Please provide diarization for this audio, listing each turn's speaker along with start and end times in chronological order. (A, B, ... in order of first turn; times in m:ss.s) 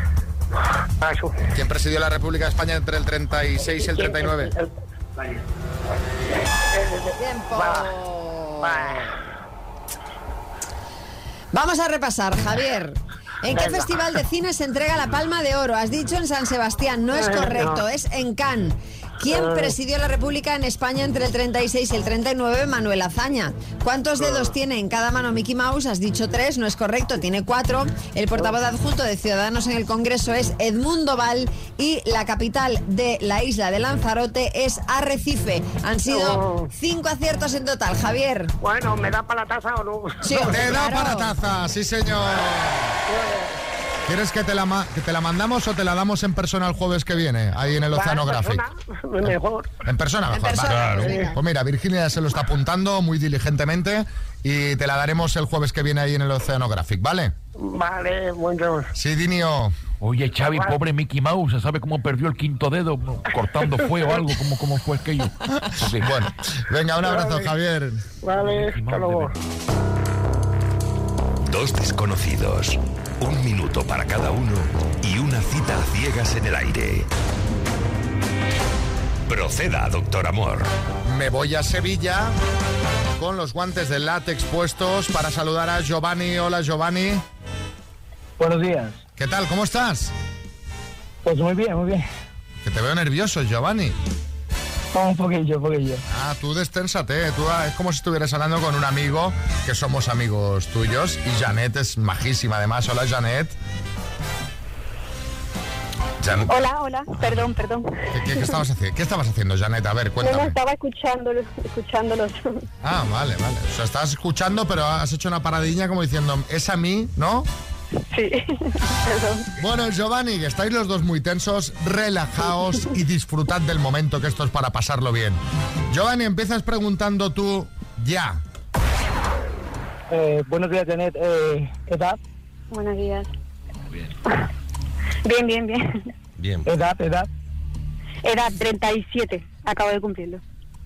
0:01.0-0:01.3 A
0:01.5-0:04.5 B
0:03.8-0:04.7 A
0:06.7-0:07.9 A
0:07.2-0:09.0 C
0:08.6-0:09.2 A
0:11.5-0:38.5 C
0:13.5-0:14.0 A
0:17.1-0:17.8 A
0:19.3-0:19.7 A
0:24.2-0:24.5 A
0:36.1-0:36.7 A
0:38.6-0:40.7 A
0:40.2-0:41.3 C
0:40.4-0:42.9 B
0:43.1-0:43.5 A
0:44.1-0:48.6 B
0:47.9-0:49.7 A
0:49.2-0:57.3 B
0:50.3-0:51.3 C
0:50.7-0:51.1 D
0:51.0-0:51.4 A
0:57.6-0:58.9 A
0:59.0-0:59.8 B
1:00.0-1:05.3 E
1:00.5-1:00.8 A
1:03.6-1:04.2 A
1:06.0-1:08.0 B
1:07.0-1:07.5 A
1:08.2-1:09.3 A
1:11.4-1:17.1 D
1:19.3-1:20.7 D
1:21.0-1:22.4 B
1:23.2-1:27.2 B
1:28.4-1:29.0 F
1:29.2-1:30.1 B
1:31.2-1:32.1 F
1:32.6-1:34.0 B
1:34.9-1:36.0 F
1:36.1-1:43.6 B
1:46.2-1:46.7 B
1:46.5-1:48.6 G
1:48.1-1:50.6 B
1:50.2-1:52.7 G
1:52.8-1:57.5 B
1:58.1-1:59.5 G
1:59.6-2:08.4 B
2:10.1-2:12.2 F
2:12.7-2:13.3 G
2:15.2-2:15.8 G
2:16.4-2:16.7 D
2:16.6-2:17.3 F
2:18.2-2:20.4 G